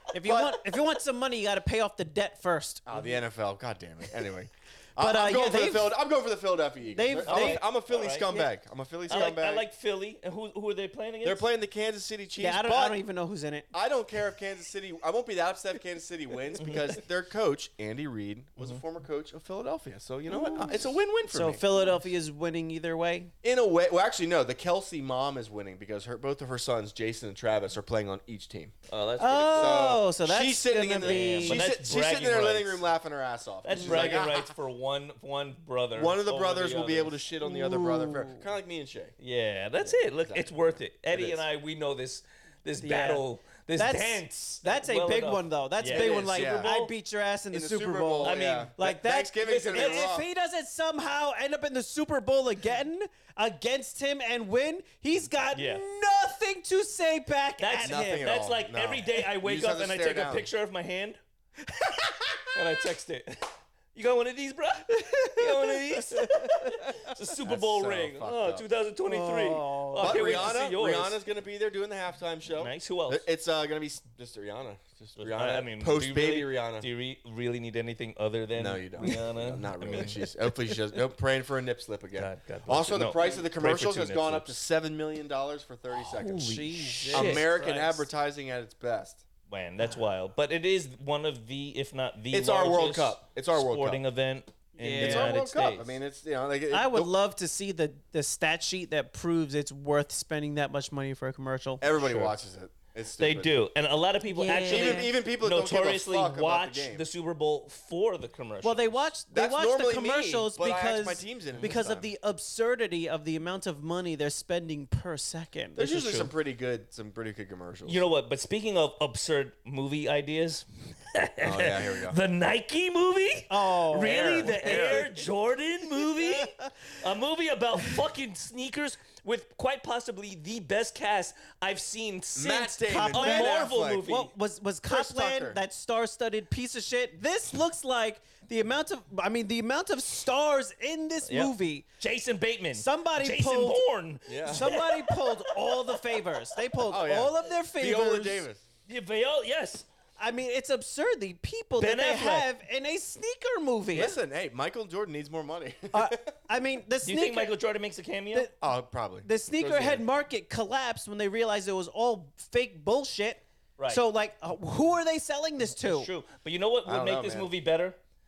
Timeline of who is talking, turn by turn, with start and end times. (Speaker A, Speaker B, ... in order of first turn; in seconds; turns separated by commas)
Speaker A: 0.1-3.1, Speaker B: 0.2-0.6, Speaker B: 2.9-9.6, Speaker A: 5.0-5.9, Speaker A: 6.9-7.6, Speaker C: 7.2-8.5, Speaker C: 9.1-11.4, Speaker B: 11.2-13.0, Speaker A: 12.4-13.7, Speaker B: 13.7-21.6, Speaker C: 16.6-17.0, Speaker A: 20.3-23.3, Speaker B: 23.4-28.7, Speaker C: 28.9-29.9, Speaker A: 29.2-31.6, Speaker B: 29.5-34.5, Speaker C: 31.0-32.8, Speaker C: 33.6-37.1, Speaker A: 33.7-34.2, Speaker B: 36.0-39.1, Speaker A: 37.4-38.4, Speaker C: 39.2-46.9, Speaker B: 39.8-41.4, Speaker A: 42.8-43.2, Speaker A: 43.8-58.3, Speaker B: 45.9-46.7, Speaker B: 47.5-50.2, Speaker C: 48.2-48.9, Speaker C: 49.4-50.1, Speaker C: 55.5-55.8, Speaker C: 57.6-61.2, Speaker B: 57.8-60.5, Speaker A: 61.8-62.1, Speaker C: 62.5-71.2, Speaker A: 64.9-66.9, Speaker B: 67.4-68.7, Speaker A: 69.0-70.5, Speaker B: 70.0-76.9, Speaker C: 72.6-73.2, Speaker C: 75.2-80.2, Speaker B: 78.5-89.2, Speaker C: 82.1-84.5, Speaker C: 86.0-87.5, Speaker A: 86.4-88.0, Speaker C: 89.5-95.9, Speaker B: 92.3-94.0, Speaker A: 94.8-95.4, Speaker B: 94.9-97.1, Speaker A: 96.7-101.9, Speaker B: 101.8-103.5, Speaker C: 102.0-102.3, Speaker C: 103.2-109.1, Speaker A: 104.3-105.1, Speaker B: 104.7-107.0, Speaker A: 108.6-116.3, Speaker B: 109.3-112.1, Speaker B: 115.8-118.0, Speaker C: 117.9-134.3, Speaker B: 121.4-122.2, Speaker A: 123.5-125.1, Speaker B: 124.0-125.1, Speaker A: 126.2-126.7, Speaker B: 132.3-134.1, Speaker A: 132.8-141.8, Speaker B: 134.9-135.6, Speaker C: 141.3-146.0, Speaker A: 142.7-143.8, Speaker B: 144.3-144.8, Speaker A: 144.4-148.4, Speaker B: 146.9-148.6, Speaker C: 148.9-149.9, Speaker A: 150.2-154.1, Speaker C: 151.8-152.5, Speaker B: 153.9-156.3, Speaker A: 155.9-157.5, Speaker C: 157.1-158.5, Speaker B: 158.6-160.0, Speaker A: 159.2-166.1, Speaker C: 165.8-168.0, Speaker B: 166.9-167.5